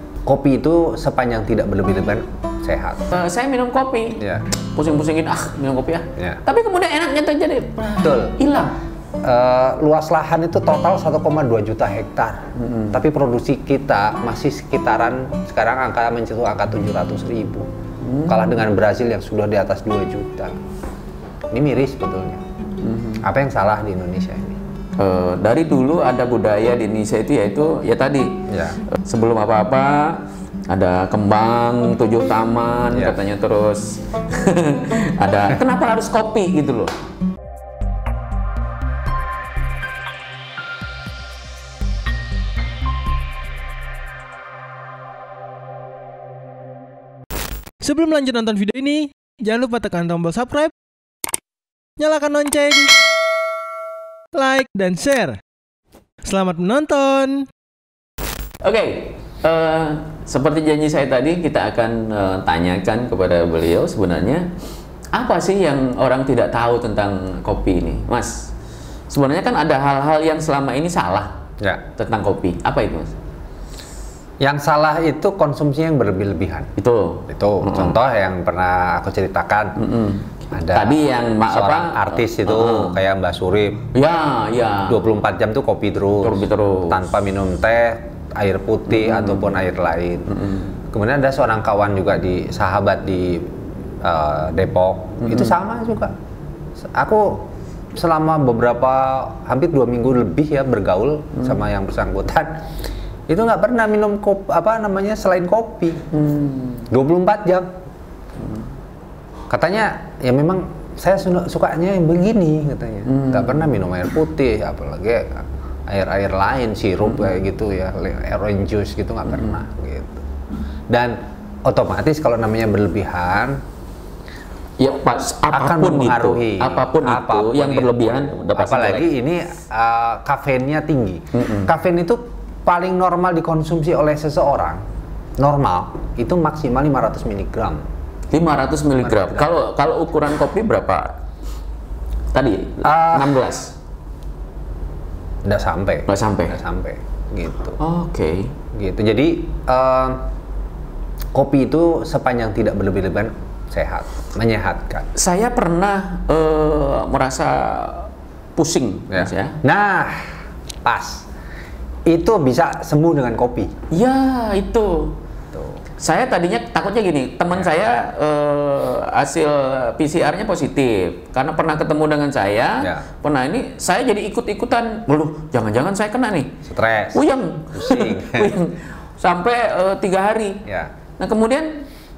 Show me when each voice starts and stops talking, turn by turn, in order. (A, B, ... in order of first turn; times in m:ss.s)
0:00.2-0:03.1 A
0:03.1-0:04.2 B
0:04.2-0:04.4 A
0:04.7-0:08.7 B
0:06.2-0:06.4 A
0:08.0-0:08.4 A
0:09.2-0:17.7 A
0:12.6-0:12.9 B
0:18.0-0:18.5 B
0:18.2-0:20.6 A
0:21.5-0:22.4 A
0:22.8-0:23.2 B
0:23.2-0:24.6 A
0:25.0-0:36.9 B
0:28.5-0:28.8 A
0:32.9-0:33.2 A
0:47.8-0:50.7 C
0:52.0-0:52.9 C
0:54.3-0:55.4 C
0:56.2-0:57.5 C
0:58.6-1:04.5 B
1:05.1-1:08.5 B
1:09.1-1:11.4 B
1:12.0-1:13.1 B
1:14.4-1:16.7 A
1:16.8-1:18.0 B
1:17.3-1:19.8 A
1:19.8-1:23.0 B
1:20.5-1:23.9 A
1:23.9-1:25.0 B
1:24.9-1:30.3 A
1:26.2-1:27.0 B
1:28.9-1:29.5 B
1:30.9-1:33.5 A
1:34.0-1:36.1 A
1:35.2-1:35.5 B
1:36.8-1:37.4 A
1:37.9-1:42.6 A
1:43.3-1:46.0 A
1:46.1-1:46.9 B
1:46.9-1:47.7 A
1:49.5-2:00.2 A
1:53.1-1:53.6 B
2:00.9-2:03.6 A
2:04.8-2:09.1 B
2:05.5-2:14.8 A
2:11.3-2:11.7 B
2:15.4-2:17.8 A
2:18.3-2:21.1 B
2:19.0-2:19.5 A
2:22.3-2:23.7 B
2:22.8-2:23.4 A
2:25.4-2:27.8 A
2:26.1-2:26.6 B
2:27.8-2:28.5 B
2:28.7-2:30.2 A
2:31.3-2:35.1 A
2:35.1-2:39.6 B
2:39.1-2:41.3 A
2:42.1-2:43.7 A
2:43.9-2:45.2 B
2:46.0-2:56.6 B
2:56.6-2:58.5 A
2:57.1-3:00.6 B
3:00.6-3:00.9 A
3:01.2-3:01.8 B